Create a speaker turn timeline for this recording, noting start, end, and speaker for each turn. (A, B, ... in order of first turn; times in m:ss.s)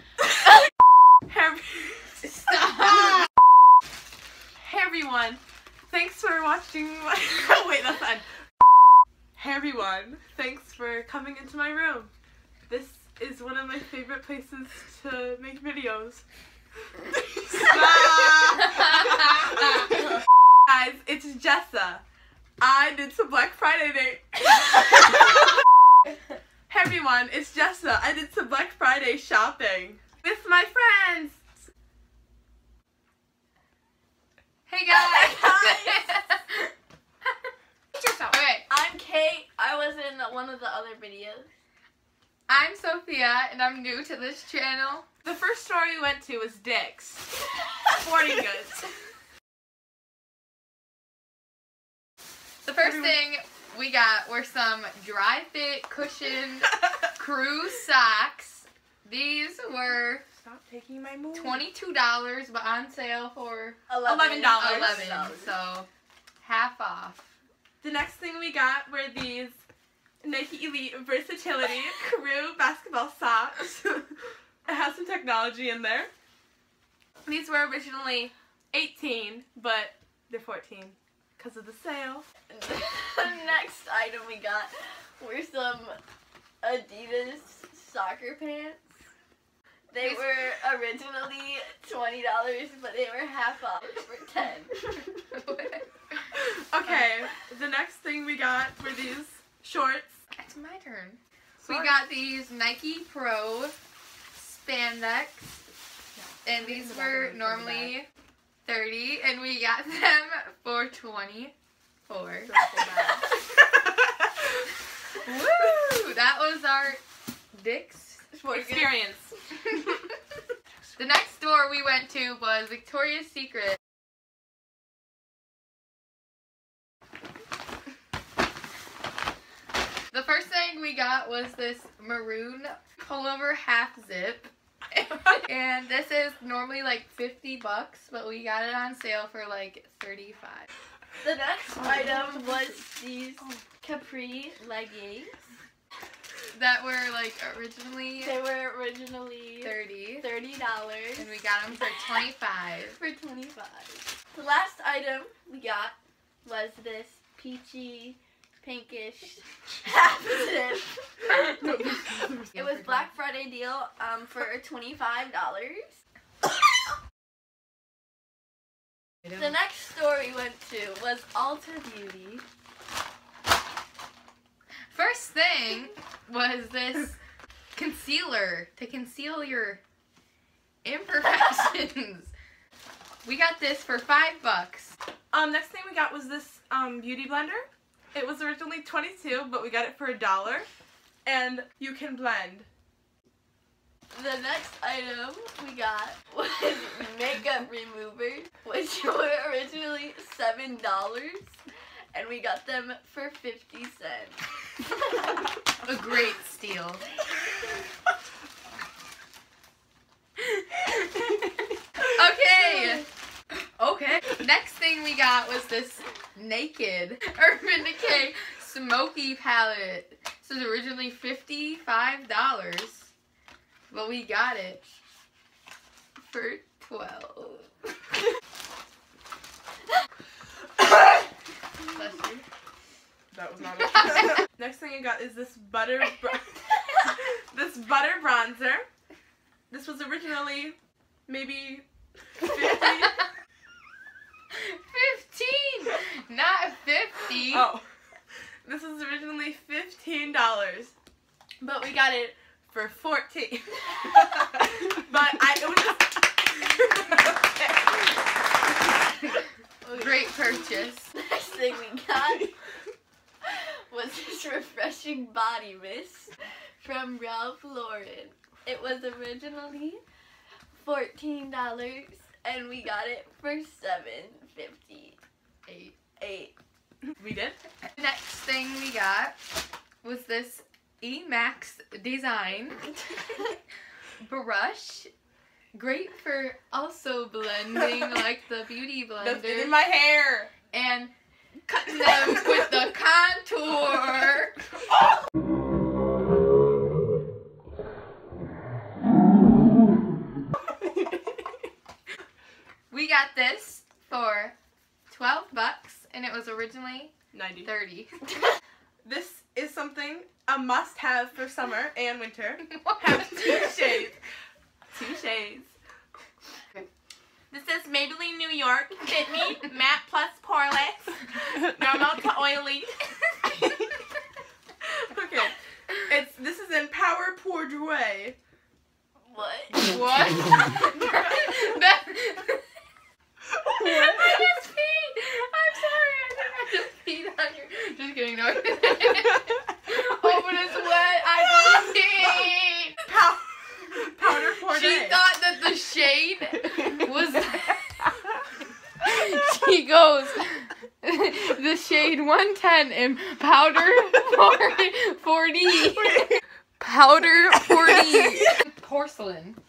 0:01.2-0:02.2 A
0:02.2-0:03.2 B
0:04.6-0:08.3 A
0:09.4-0:12.1 A
0:12.7-0:16.2 A
0:17.2-0:20.0 A
0:20.6-0:22.0 A
0:22.6-0:25.6 A
0:26.7-0:31.5 A
0:34.7-0:36.7 B
0:37.9-0:38.3 A
0:38.2-0:38.7 B
0:38.7-0:41.5 C
0:42.5-0:45.1 B
0:45.2-0:47.3 A
0:48.0-0:48.9 A
0:52.6-1:00.2 B
1:00.3-1:01.7 A
1:01.3-1:03.9 B
1:03.9-1:05.5 C
1:04.0-1:05.1 A
1:04.5-1:05.9 B
1:06.4-1:07.3 B
1:07.8-1:09.6 A
1:10.2-1:14.1 A
1:14.6-1:16.1 A
1:17.2-1:22.3 A
1:22.5-1:26.0 C
1:26.6-1:28.9 C
1:29.9-1:34.9 C
1:35.3-1:35.8 B
1:36.3-1:40.2 A
1:40.3-1:43.8 B
1:41.6-1:41.9 A
1:44.4-1:45.6 B
1:46.2-1:47.9 A
1:46.4-1:48.1 B
1:48.6-1:51.5 B
1:52.1-1:52.5 B
1:52.4-1:53.3 A
1:55.2-1:57.0 B
1:57.5-1:58.3 B
1:58.3-1:58.9 C
1:58.5-1:59.3 A
2:01.0-2:03.8 B
2:10.1-2:20.7 B
2:21.2-2:25.4 C
2:21.7-2:22.7 A
2:26.5-2:28.4 B
2:28.2-2:31.4 C
2:29.6-2:30.3 B
2:31.2-2:33.0 B
2:32.9-2:41.4 C
2:41.6-2:42.5 A
2:42.5-2:46.0 C
2:49.3-2:52.4 C
2:54.9-2:57.2 B
2:57.7-2:59.8 B
3:00.8-3:02.3 B
3:03.2-3:05.0 B
3:05.3-3:10.7 A
3:11.2-3:12.7 A
3:14.1-3:21.5 C
3:22.1-3:24.4 C
3:25.8-3:27.0 B
3:30.4-3:31.4 B
3:32.1-3:33.1 B
3:33.8-3:43.1 B
3:43.9-3:44.8 B
3:46.3-3:47.7 B
3:51.9-3:52.4 B
3:53.3-3:58.9 A
3:59.7-4:00.8 A
4:01.3-4:01.8 A
4:02.4-4:03.2 A
4:04.5-4:07.7 B
4:07.5-4:07.8 A
4:08.6-4:10.9 A
4:11.6-4:18.0 A
4:19.9-4:21.1 B
4:21.1-4:22.5 C
4:23.4-4:30.0 C
4:30.7-4:35.2 C
4:35.7-4:36.0 B
4:36.2-4:36.5 C
4:37.2-4:37.6 A
4:37.9-4:39.4 B
4:40.0-4:43.0 B
4:44.2-4:45.1 B
4:45.7-4:49.8 B
4:49.2-4:50.5 A
4:50.7-4:51.1 B
4:51.7-4:54.6 B
5:02.9-5:04.5 B
5:05.1-5:08.3 B
5:07.3-5:07.7 A
5:09.0-5:14.2 A
5:12.8-5:13.7 B
5:14.9-5:15.7 A
5:17.5-5:23.7 A
5:24.8-5:28.4 A
5:29.3-5:29.9 C
5:29.7-5:32.6 B
5:33.7-5:43.1 B
5:43.1-5:45.2 A
5:44.6-5:48.2 B
5:49.0-5:59.6 B